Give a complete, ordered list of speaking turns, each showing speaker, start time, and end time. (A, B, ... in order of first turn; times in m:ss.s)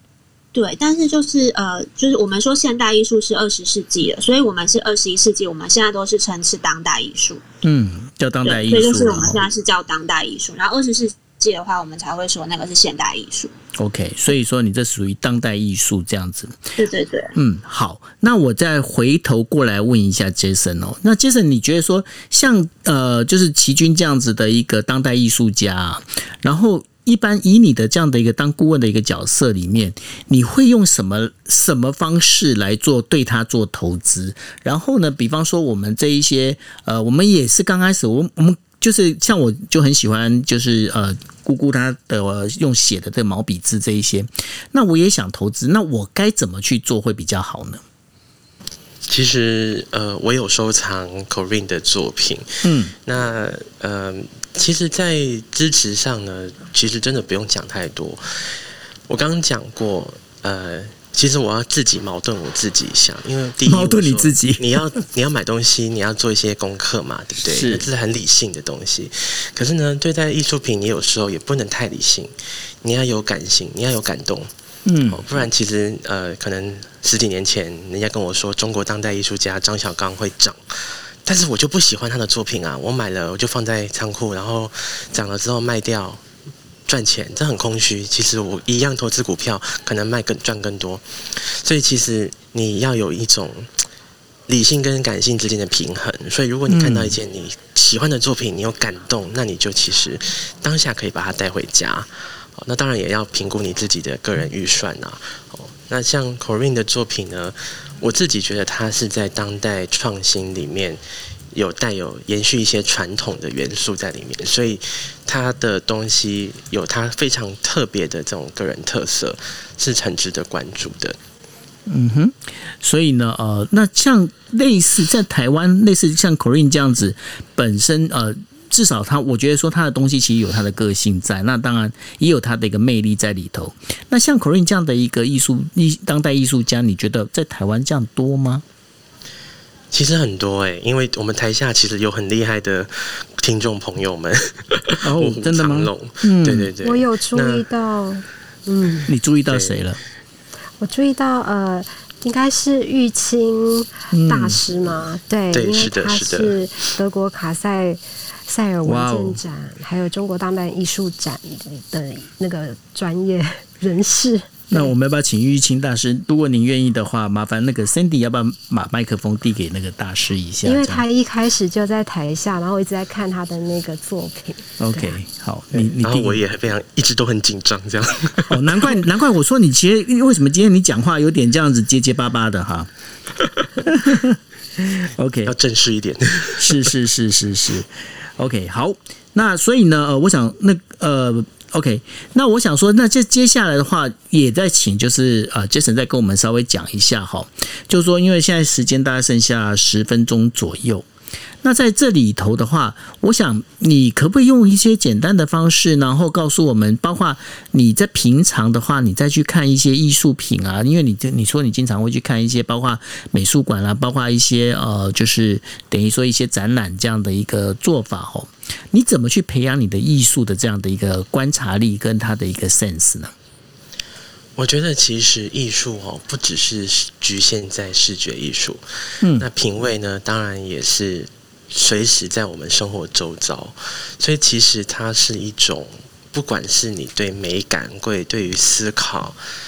0:00.5-0:07.4 A
0:07.6-0:09.5 B
0:08.4-0:13.5 A
0:13.8-0:16.6 B
0:16.8-0:17.3 A
0:17.4-0:47.8 B
0:49.1-0:52.5 C
0:52.6-0:52.9 B
0:53.0-0:58.2 C
0:59.1-1:14.5 C
1:03.6-1:04.8 B
1:07.4-1:07.9 B
1:14.8-1:15.2 B
1:15.0-1:20.6 C
1:21.2-1:26.2 C
1:26.9-1:33.7 C
1:34.5-1:51.0 C
1:36.7-1:37.2 B
1:51.5-2:01.2 C
2:01.9-2:18.6 B
2:19.9-2:27.6 C
2:25.0-2:26.7 B
2:26.8-2:29.1 D
2:29.1-2:30.0 B
2:29.5-2:29.8 C
2:30.8-2:44.9 D
2:34.1-2:34.6 B
2:35.5-2:36.6 C
2:38.8-2:39.4 B
2:44.7-2:51.0 B
2:50.6-2:55.1 D
2:54.8-2:56.4 B
2:55.7-2:58.9 C
2:58.5-3:02.9 B
3:03.8-3:05.5 B
3:05.4-3:06.9 C
3:06.6-3:21.1 B
3:21.6-3:43.3 B
3:44.6-3:48.8 C
3:49.4-3:59.4 C